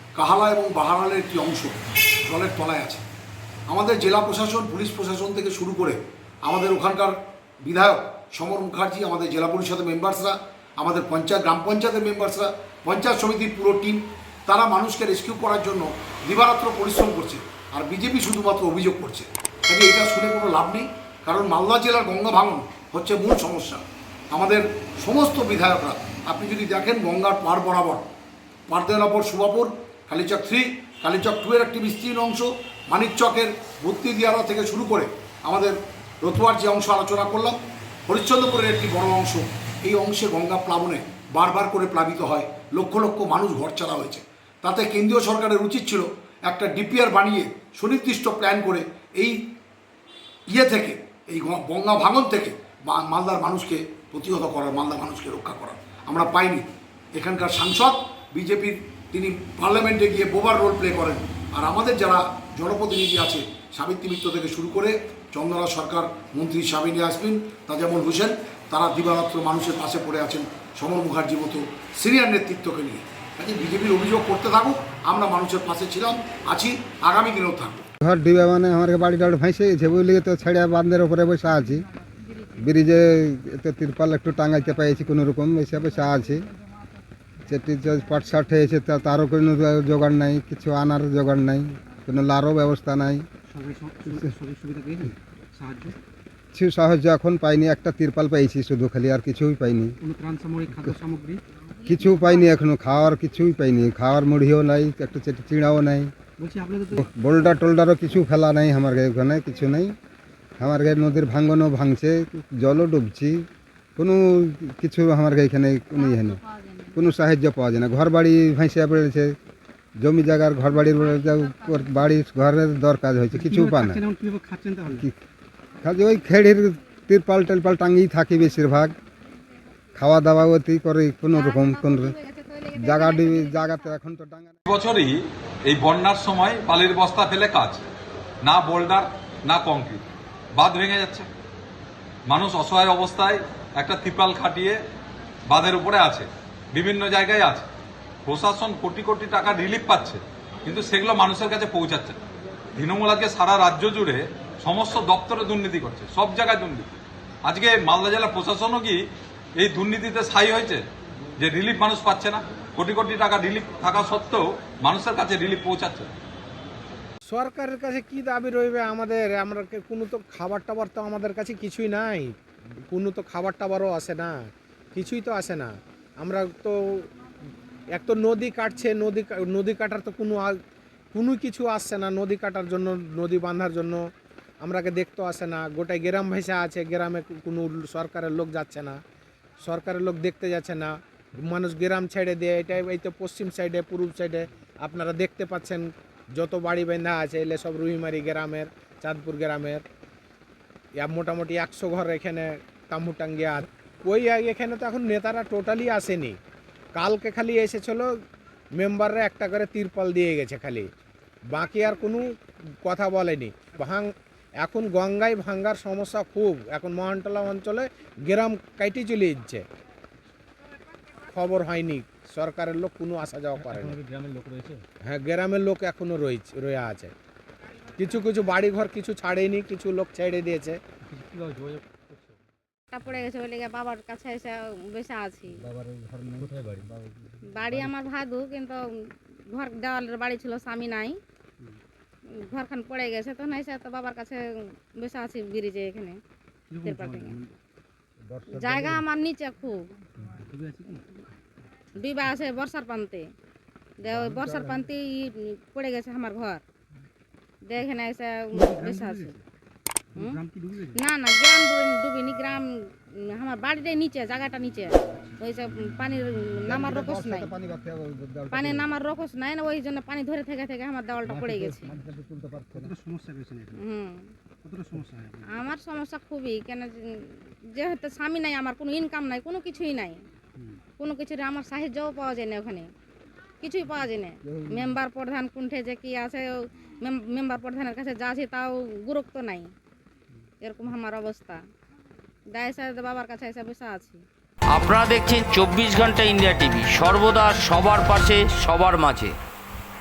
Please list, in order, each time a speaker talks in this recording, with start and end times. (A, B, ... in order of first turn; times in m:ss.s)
0:00.2-0:03.0 A
0:03.7-0:28.1 A
0:28.7-0:49.4 A
0:50.5-1:17.9 A
1:18.0-1:21.9 B
1:22.6-1:26.5 B
1:27.5-1:33.3 B
1:33.5-1:36.0 C
1:36.5-1:40.0 B
1:40.0-1:41.4 C
1:41.8-1:42.6 D
1:41.9-1:46.1 B
1:46.4-1:47.0 C
1:47.0-1:50.0 B
1:50.6-1:56.4 B
1:56.0-1:57.0 D
1:56.9-1:59.4 B
2:00.0-2:04.0 B
2:00.9-2:01.8 D
2:03.4-2:05.0 C
2:05.8-2:09.0 B
2:10.0-2:12.1 B
2:11.3-2:13.9 D
2:12.8-2:14.6 B
2:14.7-2:17.8 E
2:18.4-2:20.0 E
2:20.6-2:21.3 E
2:22.3-2:24.8 E
2:25.5-2:27.7 E
2:28.3-2:32.2 E
2:32.8-2:36.9 E
2:37.4-2:39.0 E
2:39.6-2:40.8 E
2:41.4-2:46.1 E
2:47.3-2:52.4 F
2:52.9-2:54.4 F
2:54.9-2:57.1 F
2:57.9-3:00.6 F
3:01.1-3:04.1 F
3:04.6-3:09.0 F
3:09.6-3:19.8 F
3:21.0-3:26.4 F
3:27.0-3:28.1 F
3:28.8-3:30.9 F
3:31.5-3:32.3 F
3:32.8-3:34.1 F
3:34.6-3:39.6 F
3:41.3-3:44.0 F
3:44.1-3:44.8 C
3:45.1-3:47.1 F
3:48.0-3:50.8 F
3:51.1-3:52.3 C
3:52.9-3:55.6 D
3:55.6-3:57.9 B
3:57.5-4:01.2 D
4:02.4-4:06.2 D
4:06.7-4:07.6 C
4:06.8-4:07.4 D
4:08.3-4:09.1 B
4:08.5-4:09.9 D
4:10.3-4:11.0 C
4:12.0-4:13.3 D
4:14.0-4:16.6 D
4:14.0-4:14.8 B
4:17.6-4:19.4 D
4:18.5-4:19.4 C
4:20.2-4:20.4 D
4:20.2-4:21.0 C
4:21.0-4:27.5 D
4:26.7-4:28.9 B
4:28.5-4:31.9 D
4:31.2-4:32.9 B
4:32.7-4:33.8 C
4:33.8-4:34.3 D
4:34.6-4:35.6 C
4:35.4-4:40.2 D
4:41.0-4:42.9 D
4:43.6-4:49.7 D
4:44.4-4:44.9 B
4:50.6-4:51.6 D
4:52.5-4:54.2 D
4:54.7-4:59.4 G